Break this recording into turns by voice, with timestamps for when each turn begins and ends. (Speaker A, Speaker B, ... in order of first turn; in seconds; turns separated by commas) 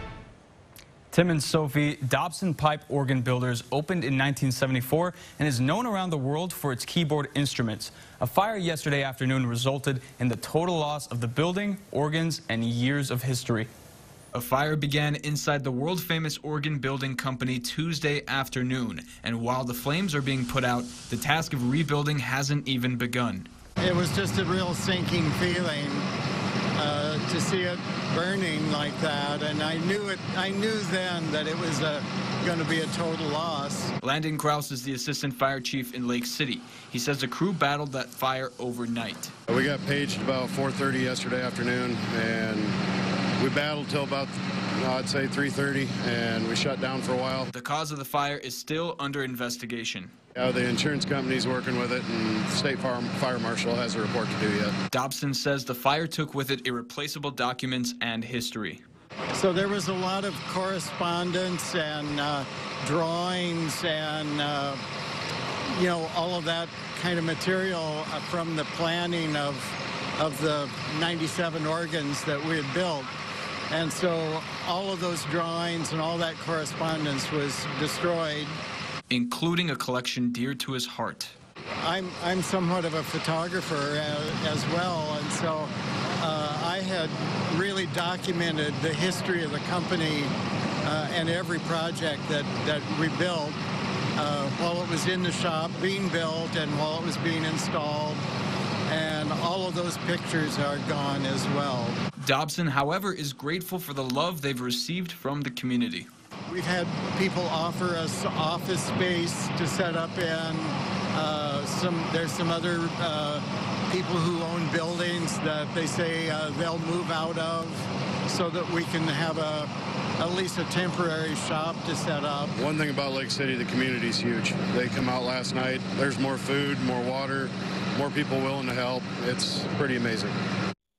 Speaker A: 1.1-13.7, Speaker B: 14.3-23.5, Speaker C: 23.8-26.0, Speaker C: 26.7-33.9, Speaker B: 34.0-39.3, Speaker A: 35.2-36.2, Speaker D: 39.5-42.7, Speaker D: 43.4-47.5, Speaker B: 47.5-50.1, Speaker D: 50.4-54.7, Speaker B: 54.9-58.8, Speaker C: 59.3-64.8, Speaker C: 65.7-73.1, Speaker C: 73.7-78.5, Speaker B: 79.1-81.3, Speaker C: 81.8-93.6, Speaker C: 94.2-98.2, Speaker C: 98.9-102.0, Speaker B: 102.2-106.1, Speaker C: 106.5-122.5, Speaker D: 122.5-130.3